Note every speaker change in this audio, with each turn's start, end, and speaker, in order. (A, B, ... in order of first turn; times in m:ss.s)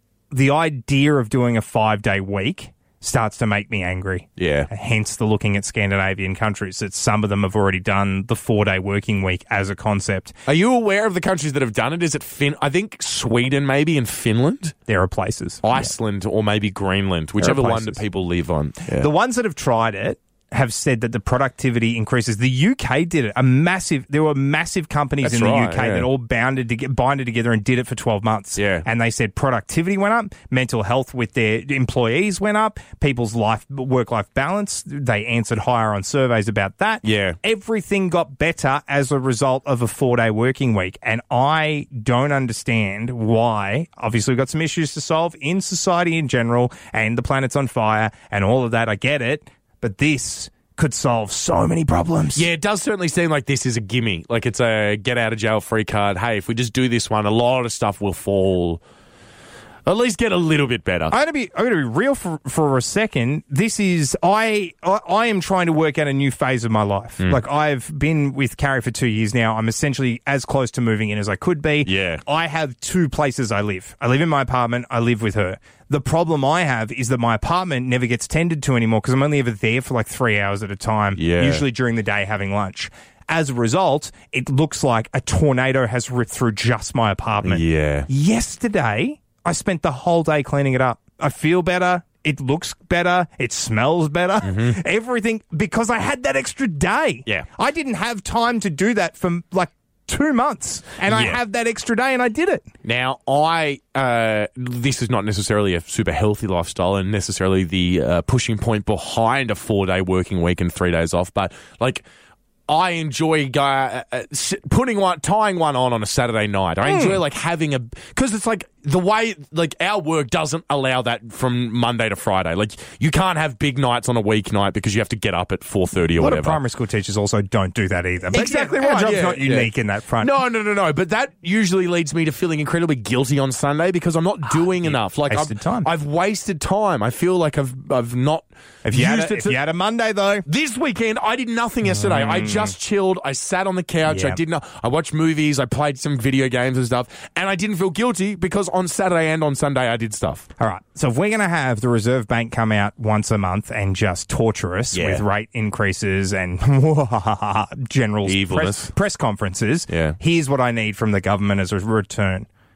0:00.3-0:10.4 A
0:04.4-0:04.7 B
0:10.4-0:14.7 B
0:14.9-0:15.9 A
0:15.6-0:19.1 B
0:17.4-0:18.0 A
0:18.9-0:52.4 A
0:25.2-0:26.1 B
0:28.6-0:28.9 B
0:37.0-0:37.4 B
0:52.3-0:58.8 B
0:59.9-1:01.1 B
1:01.1-1:42.7 A
1:11.8-1:12.2 B
1:21.2-1:21.6 B
1:27.4-1:28.1 B
1:34.4-1:34.8 B
1:41.1-1:41.4 B
1:42.8-1:52.0 B
1:52.7-2:06.6 B
1:56.8-1:57.2 A
2:06.2-2:10.4 A
2:08.3-2:19.6 B
2:14.8-2:15.9 A
2:18.8-2:20.4 A
2:20.4-2:30.5 B
2:21.8-2:22.8 A
2:24.1-2:24.4 A
2:30.6-2:42.5 A
2:34.9-2:35.2 B
2:38.2-2:38.9 B
2:39.9-2:40.2 B